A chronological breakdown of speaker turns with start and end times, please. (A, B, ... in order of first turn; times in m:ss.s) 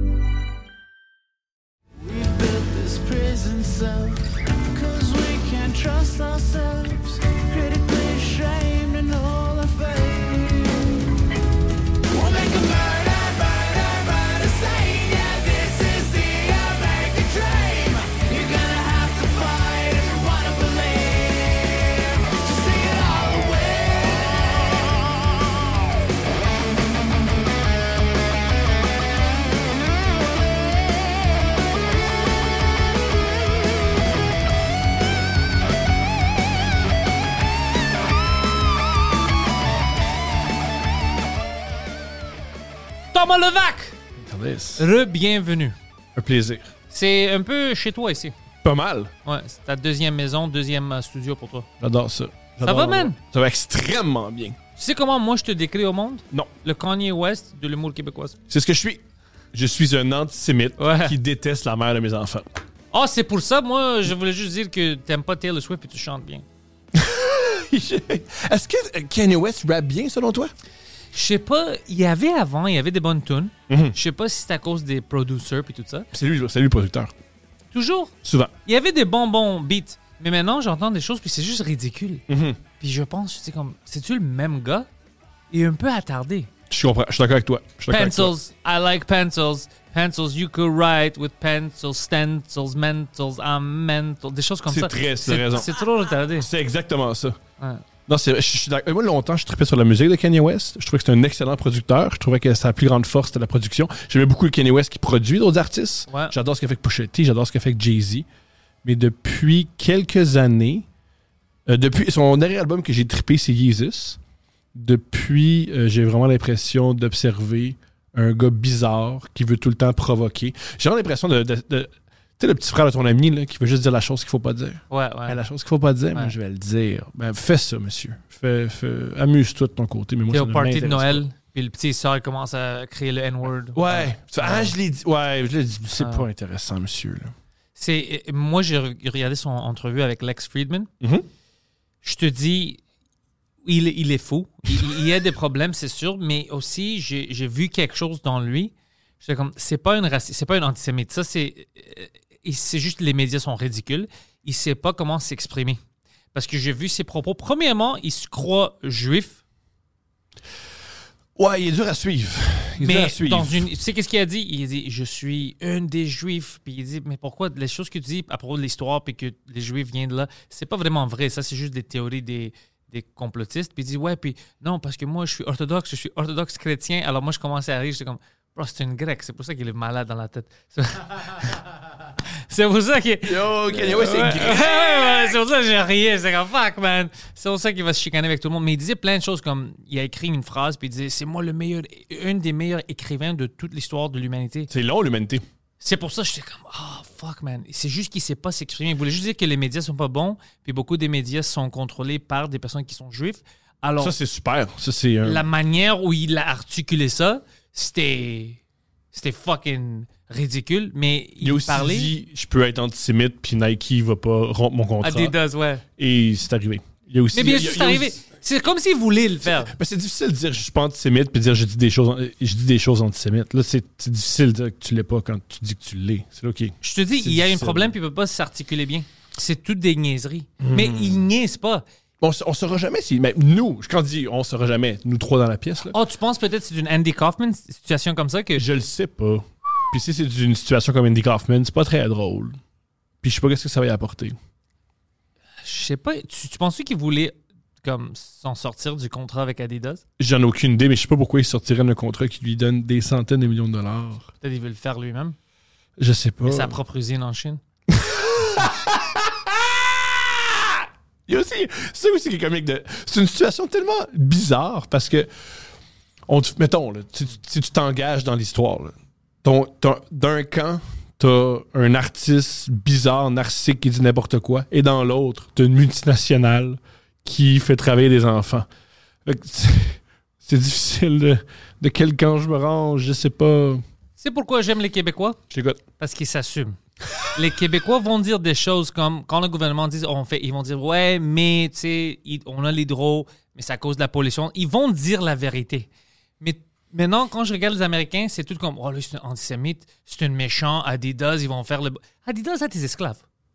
0:02.0-0:11.0 A
0:12.1-0:25.2 A
0:43.1-0:44.0 B
0:44.2-0:44.9 C
0:44.8-0:45.8 B
0:46.2-0:46.7 C
0:46.9-0:48.3 B
0:48.6-0:49.1 C
0:49.2-0:51.7 B
0:51.8-0:54.6 C
0:52.6-0:53.2 B
0:54.8-0:58.4 B
0:58.5-0:59.0 C
0:59.5-1:02.5 C
1:00.8-1:01.2 B
1:02.9-1:06.4 B
1:06.9-1:10.5 C
1:11.1-1:16.1 B
1:13.7-1:14.0 C
1:16.1-1:17.1 C
1:17.7-1:18.1 B
1:18.2-1:18.5 C
1:18.6-1:22.2 B
1:22.3-1:22.6 C
1:22.8-1:24.9 B
1:25.5-1:26.5 B
1:26.7-1:28.4 C
1:27.9-1:36.5 B
1:34.7-1:35.8 C
1:36.3-1:37.4 C
1:38.1-1:48.3 C
1:46.1-1:46.3 B
1:48.8-1:50.9 C
1:51.7-1:54.2 C
1:54.7-2:11.2 C
2:04.9-2:05.4 B
2:10.3-2:14.8 B
2:13.7-2:17.3 C
2:16.0-2:16.3 B
2:17.8-2:20.9 B
2:21.0-2:21.3 C
2:22.0-2:22.8 B
2:23.6-2:35.8 B
2:36.3-2:39.4 B
2:41.4-2:43.7 C
2:42.8-3:01.6 B
3:02.3-3:14.7 B
3:03.2-3:05.3 C
3:14.7-3:15.4 C
3:15.8-3:24.2 B
3:24.0-3:25.4 C
3:25.2-3:28.6 B
3:29.1-3:32.1 B
3:31.4-3:35.4 C
3:35.0-3:35.8 B
3:36.0-3:38.2 C
3:37.3-3:39.7 B
3:39.4-3:47.9 C
3:46.8-3:51.8 B
3:50.6-3:51.2 C
3:52.2-3:56.0 C
3:55.9-3:58.6 B
3:58.6-4:02.6 C
4:03.2-4:04.4 C
4:05.6-4:10.0 B
4:10.2-4:14.3 C
4:14.4-4:15.4 B
4:16.0-4:16.8 C
4:16.4-4:17.6 B
4:17.9-4:25.3 C
4:26.3-4:38.7 C
4:39.2-4:43.8 C
4:44.2-4:45.4 B
4:45.5-4:45.8 C
4:46.0-4:46.8 B
4:47.3-4:55.9 B
4:56.4-5:03.2 B